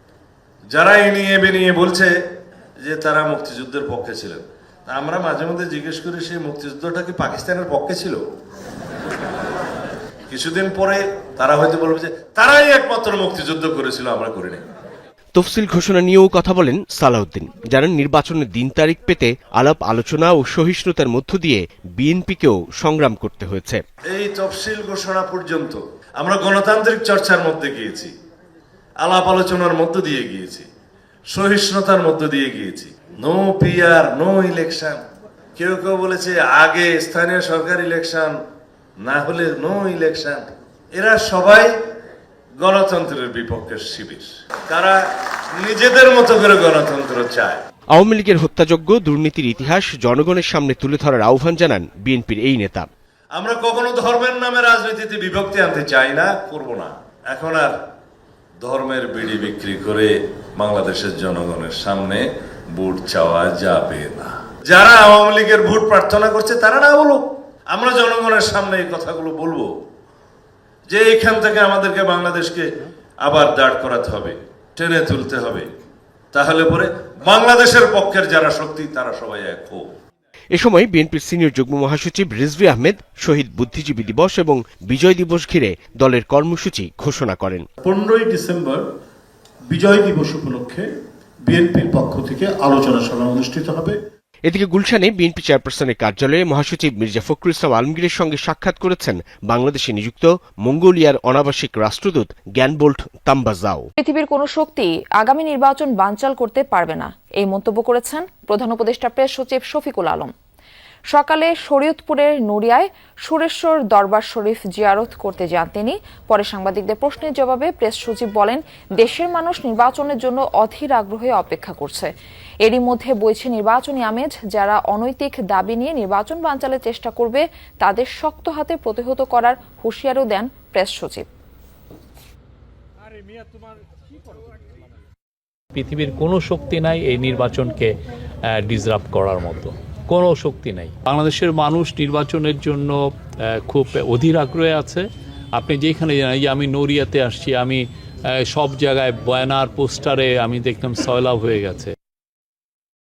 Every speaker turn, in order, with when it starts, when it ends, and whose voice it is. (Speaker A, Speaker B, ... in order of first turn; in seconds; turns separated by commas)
Speaker A: 0.7-2.1, Speaker A: 2.8-8.2, Speaker A: 10.3-14.6, Speaker B: 15.3-23.8, Speaker A: 24.1-28.1, Speaker A: 29.0-30.7, Speaker A: 31.3-35.0, Speaker A: 35.6-38.3, Speaker A: 39.0-41.7, Speaker A: 42.6-45.0, Speaker A: 45.6-47.6, Speaker B: 47.9-52.9, Speaker A: 53.4-57.7, Speaker A: 58.6-69.7, Speaker A: 70.9-72.7, Speaker A: 73.2-75.7, Speaker A: 76.3-79.8, Speaker B: 80.5-87.7, Speaker C: 87.8-88.8, Speaker C: 89.7-90.9, Speaker C: 91.5-94.0, Speaker B: 94.5-103.9, Speaker D: 104.0-110.3, Speaker D: 111.1-131.3, Speaker E: 135.8-137.9, Speaker E: 138.5-147.9, Speaker E: 148.4-151.9